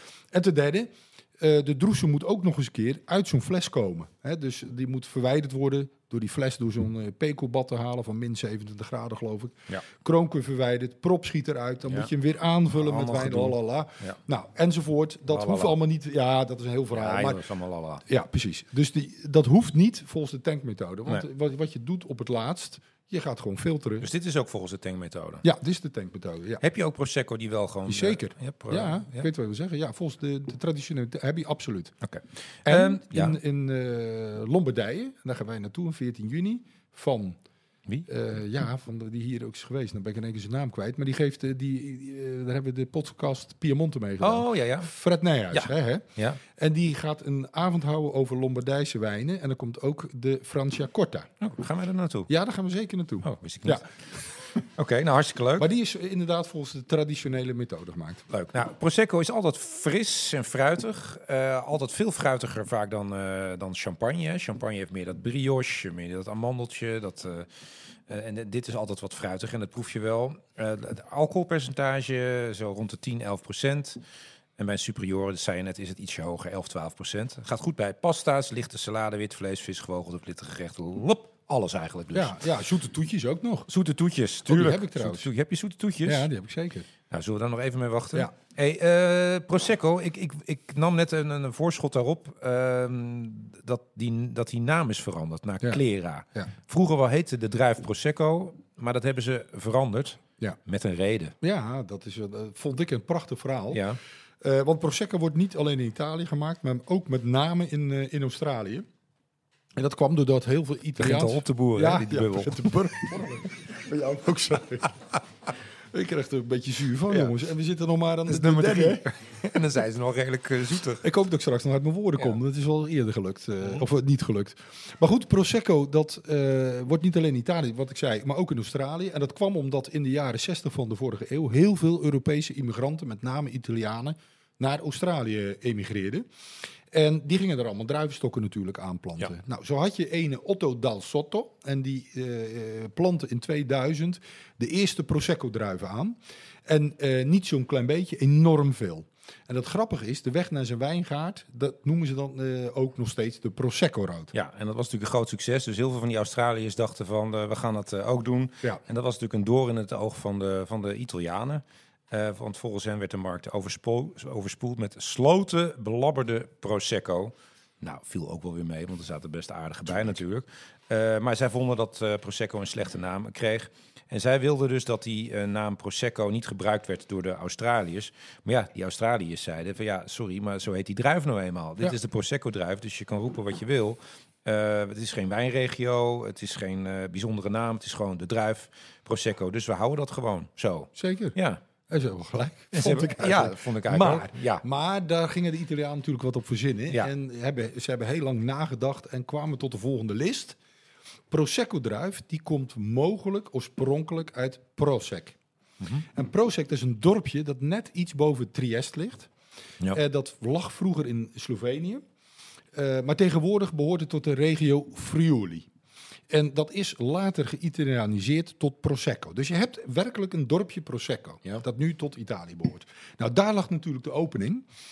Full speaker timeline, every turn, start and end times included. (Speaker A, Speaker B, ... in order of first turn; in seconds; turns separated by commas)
Speaker A: 0.3-17.4, Speaker B: 12.8-14.2, Speaker B: 15.3-15.8, Speaker B: 16.9-18.0, Speaker A: 18.1-24.1, Speaker B: 24.0-25.4, Speaker A: 25.4-26.6, Speaker B: 26.6-29.3, Speaker A: 27.9-31.9, Speaker B: 32.0-33.4, Speaker A: 32.6-37.4, Speaker A: 38.1-51.3, Speaker B: 44.2-44.9, Speaker B: 45.5-46.4, Speaker B: 51.4-52.3, Speaker A: 52.3-53.8, Speaker B: 53.2-53.9, Speaker B: 54.5-55.7, Speaker A: 55.6-58.2, Speaker B: 58.3-67.5, Speaker B: 68.1-74.0, Speaker B: 74.6-82.4, Speaker A: 82.1-83.7, Speaker B: 83.7-86.3, Speaker A: 84.5-85.3, Speaker A: 86.0-86.9, Speaker B: 87.1-101.3, Speaker A: 101.4-103.8, Speaker B: 103.7-104.0, Speaker A: 104.4-108.9, Speaker A: 109.8-119.1, Speaker B: 111.0-112.7, Speaker B: 117.1-117.3, Speaker B: 118.3-121.0, Speaker A: 121.0-136.2, Speaker A: 136.9-154.3, Speaker B: 154.3-191.6, Speaker A: 190.9-191.3, Speaker A: 191.9-200.6, Speaker B: 192.7-194.6, Speaker A: 201.3-205.3, Speaker A: 206.1-209.3, Speaker A: 209.9-212.0, Speaker A: 212.7-215.7, Speaker A: 216.3-224.6